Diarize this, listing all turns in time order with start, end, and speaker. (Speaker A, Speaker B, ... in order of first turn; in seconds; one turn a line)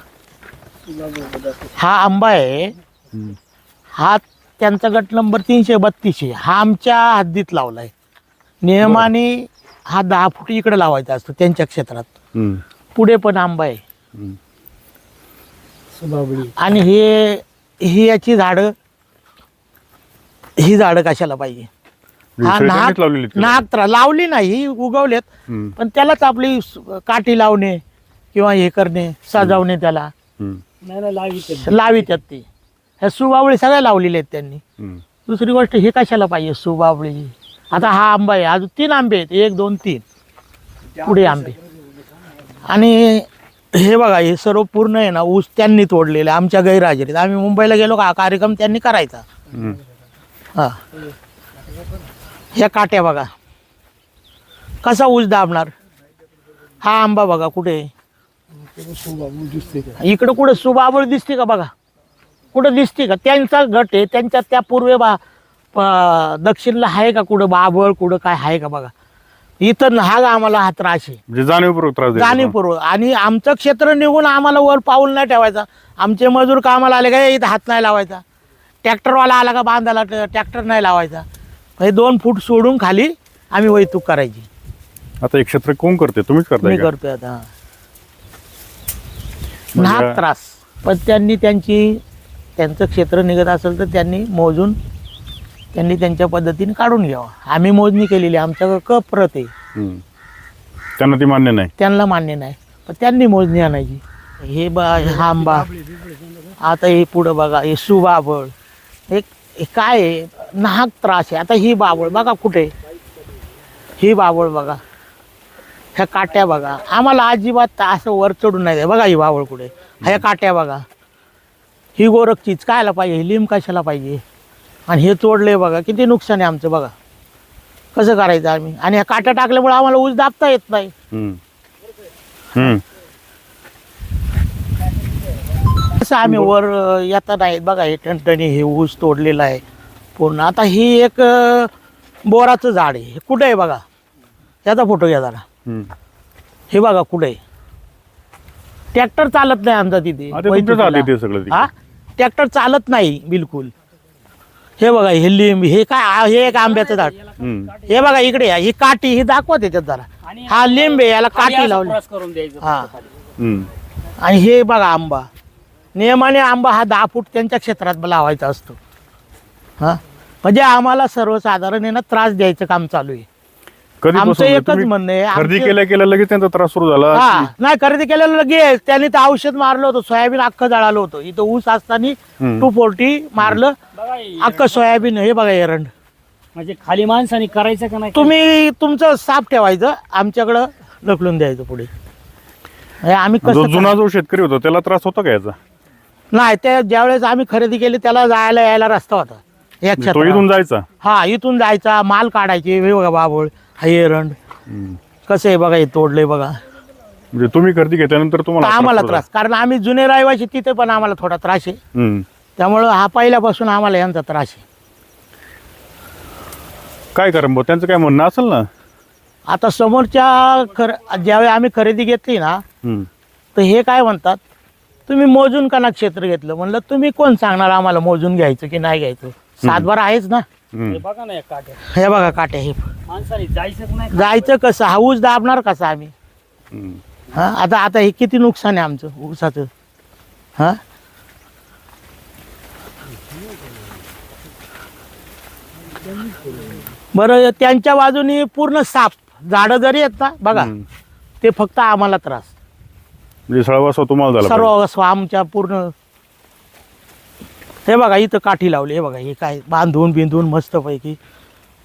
Speaker A: 1.8-2.7
Speaker A: 4.0-7.9
Speaker A: 8.6-12.1
Speaker B: 8.8-9.1
Speaker B: 12.3-12.6
Speaker A: 12.9-13.8
Speaker C: 16.0-16.5
Speaker A: 16.6-18.7
Speaker A: 20.6-21.7
Speaker B: 22.4-23.6
Speaker A: 22.4-25.2
Speaker B: 25.5-25.7
Speaker A: 25.8-27.8
Speaker A: 28.3-30.1
Speaker C: 30.8-32.2
Speaker A: 31.6-32.5
Speaker A: 33.0-34.6
Speaker B: 34.8-35.0
Speaker A: 35.2-40.0
Speaker A: 41.0-41.6
Speaker A: 42.6-49.2
Speaker B: 49.5-49.8
Speaker A: 52.5-53.3
Speaker A: 54.8-55.7
Speaker A: 56.8-57.9
Speaker C: 58.8-59.7
Speaker A: 60.0-61.7
Speaker A: 62.5-65.2
Speaker A: 65.7-68.9
Speaker A: 69.6-71.2
Speaker B: 71.3-72.5
Speaker A: 72.2-78.2
Speaker A: 78.8-81.2
Speaker A: 81.8-84.5
Speaker B: 85.2-86.9
Speaker A: 86.6-87.5
Speaker B: 89.7-90.2
Speaker A: 89.8-92.0
Speaker A: 92.6-94.8
Speaker A: 95.7-99.5
Speaker B: 99.8-100.0
Speaker B: 101.0-101.7
Speaker A: 101.8-105.7
Speaker C: 105.0-106.6
Speaker A: 106.6-108.5
Speaker A: 109.1-112.7
Speaker A: 114.0-114.8
Speaker A: 116.0-120.8
Speaker A: 122.0-124.2
Speaker A: 124.9-126.9
Speaker A: 127.9-130.9
Speaker B: 131.1-131.4
Speaker B: 132.5-132.8
Speaker A: 135.9-139.6
Speaker B: 136.2-136.5
Speaker A: 140.2-141.7
Speaker A: 142.3-143.8
Speaker A: 144.7-145.4
Speaker B: 145.7-145.9
Speaker A: 146.7-147.4
Speaker A: 148.9-153.7
Speaker B: 150.3-151.7
Speaker A: 154.8-157.1
Speaker C: 156.4-158.4
Speaker B: 157.4-157.7
Speaker A: 157.9-162.0
Speaker C: 160.2-163.1
Speaker A: 162.6-162.9
Speaker B: 163.4-163.7
Speaker A: 164.2-165.3
Speaker A: 165.9-168.8
Speaker A: 169.8-173.3
Speaker B: 174.0-177.5
Speaker A: 174.2-175.8
Speaker A: 177.1-183.8
Speaker B: 182.4-182.7
Speaker C: 183.9-185.1
Speaker A: 184.4-185.9
Speaker C: 186.5-188.3
Speaker A: 188.1-191.9
Speaker A: 193.0-194.0
Speaker B: 193.4-195.6
Speaker A: 196.3-200.5
Speaker B: 200.0-200.8
Speaker A: 201.0-204.3
Speaker B: 204.7-205.0
Speaker A: 205.3-206.6
Speaker B: 207.3-209.2
Speaker A: 208.6-211.8
Speaker B: 211.9-212.3
Speaker A: 212.6-214.6
Speaker B: 217.1-218.7
Speaker A: 219.5-222.6
Speaker A: 223.5-224.4
Speaker A: 225.1-230.5
Speaker B: 230.7-231.0
Speaker C: 230.9-231.8
Speaker A: 231.9-232.8
Speaker C: 233.1-234.5
Speaker A: 234.1-236.1
Speaker B: 236.7-237.0
Speaker A: 237.3-239.7
Speaker A: 247.1-250.7
Speaker B: 250.5-250.8
Speaker A: 251.4-252.5
Speaker B: 253.5-254.7
Speaker A: 254.4-255.9
Speaker A: 257.9-261.2